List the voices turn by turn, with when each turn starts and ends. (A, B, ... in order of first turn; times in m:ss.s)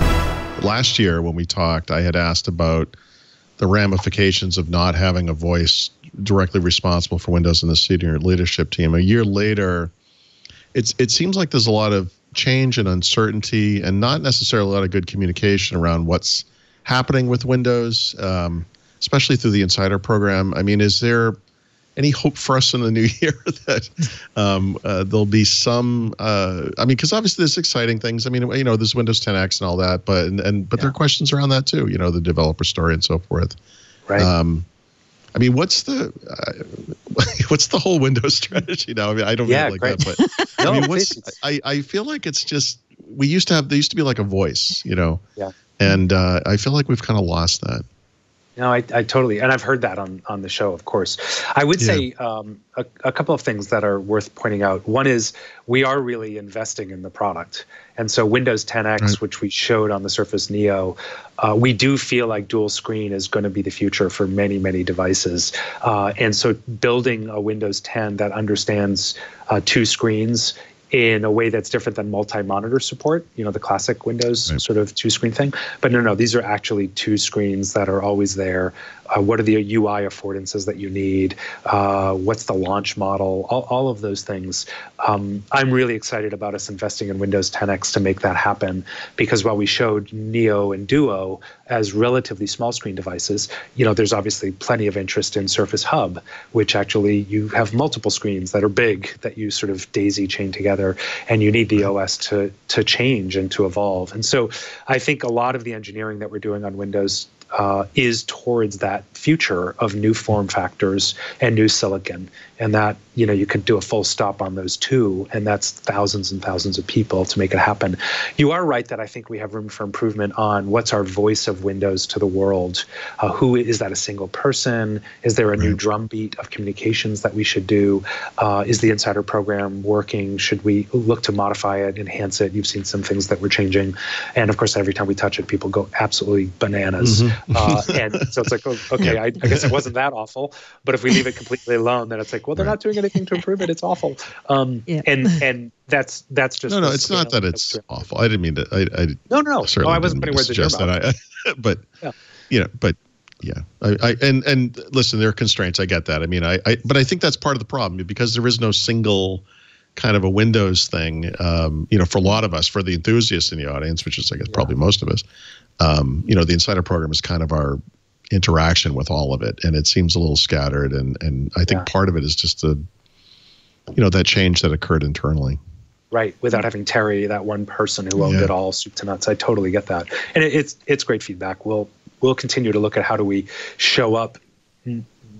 0:00.6-0:02.9 A
0:03.6-0:09.9 A
0:10.7-0:21.4 A
0:22.0-0:33.6 A
0:34.2-0:34.6 A
0:35.3-0:45.2 A
0:39.4-0:41.3 B
0:45.8-0:47.8 A
0:48.6-2:27.8 B
0:51.8-0:52.0 A
2:17.0-2:18.2 A
2:19.0-2:19.7 A
2:26.7-2:31.8 A
2:29.3-2:31.0 B
2:32.5-2:39.4 A
2:40.0-2:45.2 A
2:44.5-2:44.7 B
2:45.8-2:47.8 A
2:48.3-2:52.8 A
2:53.9-2:55.6 A
2:56.1-3:05.1 B
2:58.2-2:58.5 A